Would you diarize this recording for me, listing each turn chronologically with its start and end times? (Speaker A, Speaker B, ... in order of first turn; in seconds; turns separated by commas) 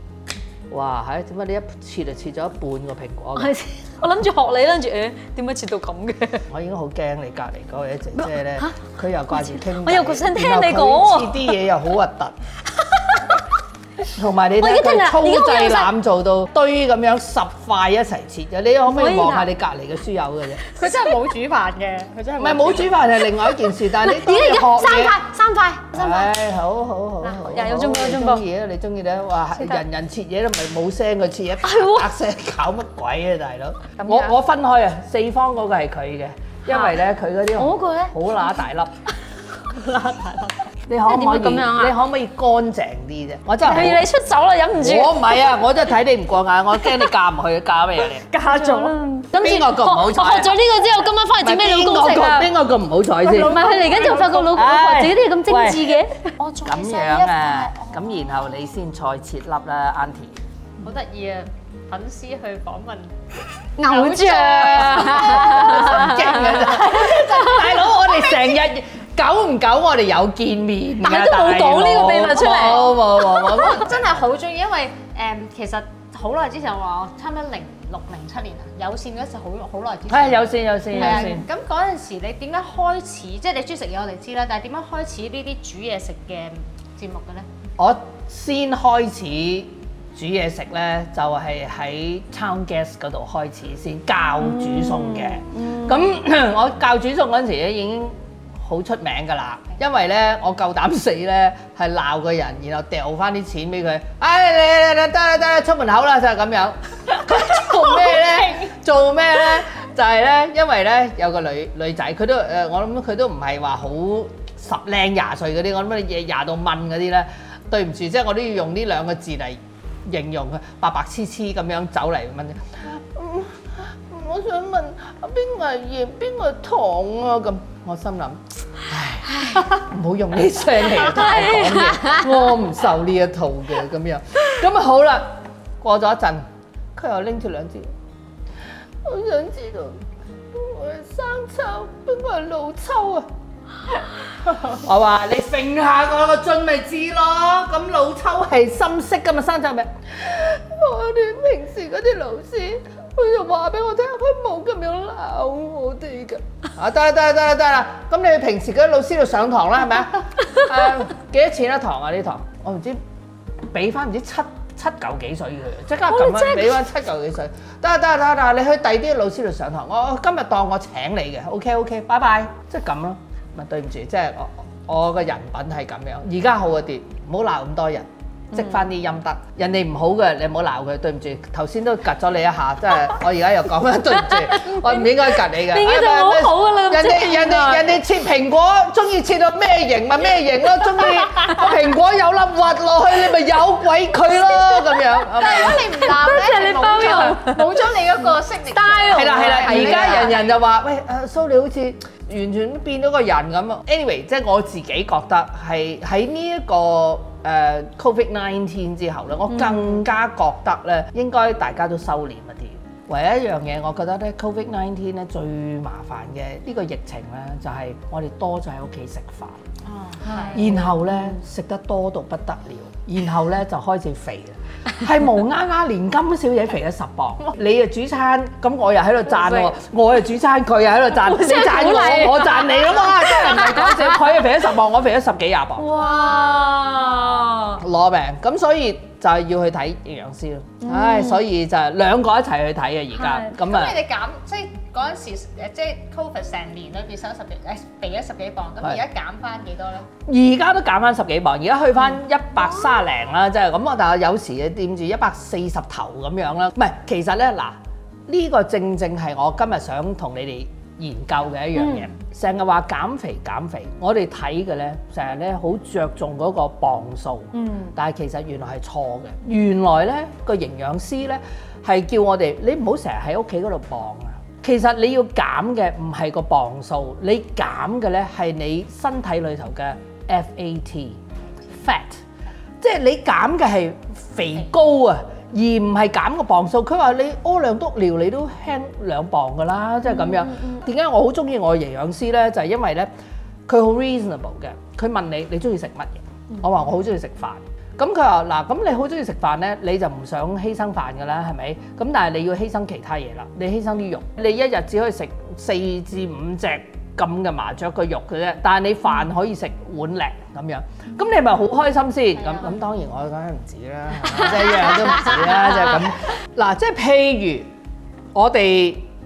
Speaker A: 0.7-3.5, Speaker B: 3.4-6.4, Speaker A: 6.5-12.3, Speaker B: 8.2-8.7, Speaker B: 9.3-11.4, Speaker A: 14.1-20.6, Speaker B: 14.6-15.9, Speaker B: 18.9-19.5, Speaker C: 20.8-23.0, Speaker A: 22.4-25.2, Speaker B: 23.9-26.2, Speaker A: 25.9-38.9, Speaker B: 27.3-28.4, Speaker B: 31.6-32.0, Speaker B: 34.0-34.3, Speaker B: 36.7-37.0, Speaker B: 37.6-38.1, Speaker C: 39.7-40.6, Speaker A: 40.9-44.0, Speaker B: 41.0-41.9, Speaker B: 43.6-45.5, Speaker A: 44.8-48.2, Speaker C: 48.2-49.0, Speaker B: 48.4-52.5, Speaker A: 49.3-50.5, Speaker A: 51.4-56.0, Speaker B: 53.2-58.0, Speaker C: 53.8-54.3, Speaker A: 56.6-60.4, Speaker C: 60.8-63.1, Speaker B: 63.8-66.7, Speaker A: 63.9-74.1, Speaker C: 63.9-68.2, Speaker B: 71.0-72.8, Speaker C: 72.4-87.5, Speaker A: 80.1-81.5, Speaker A: 87.8-137.9, Speaker B: 94.5-95.9, Speaker C: 107.9-108.6, Speaker B: 131.7-132.3, Speaker A: 139.0-140.0, Speaker A: 140.5-143.3, Speaker A: 144.6-163.0, Speaker A: 163.7-195.9, Speaker B: 166.1-166.7, Speaker B: 184.5-185.1, Speaker B: 185.7-187.9, Speaker C: 195.3-200.6, Speaker B: 195.6-197.9, Speaker B: 198.7-200.1, Speaker A: 199.1-219.6, Speaker B: 209.5-210.0, Speaker C: 219.9-220.7, Speaker B: 220.4-220.6, Speaker A: 220.5-235.9, Speaker B: 229.3-229.7, Speaker B: 231.2-234.0, Speaker B: 235.8-237.8, Speaker C: 236.0-236.5, Speaker A: 237.8-244.0, Speaker B: 240.8-241.4, Speaker B: 243.2-243.5, Speaker C: 243.5-250.1, Speaker A: 250.2-281.2, Speaker B: 261.8-262.1, Speaker B: 267.5-267.9, Speaker A: 281.8-282.2, Speaker A: 282.8-293.1, Speaker B: 290.2-290.8, Speaker A: 293.7-317.7, Speaker C: 312.4-312.7, Speaker A: 318.3-319.1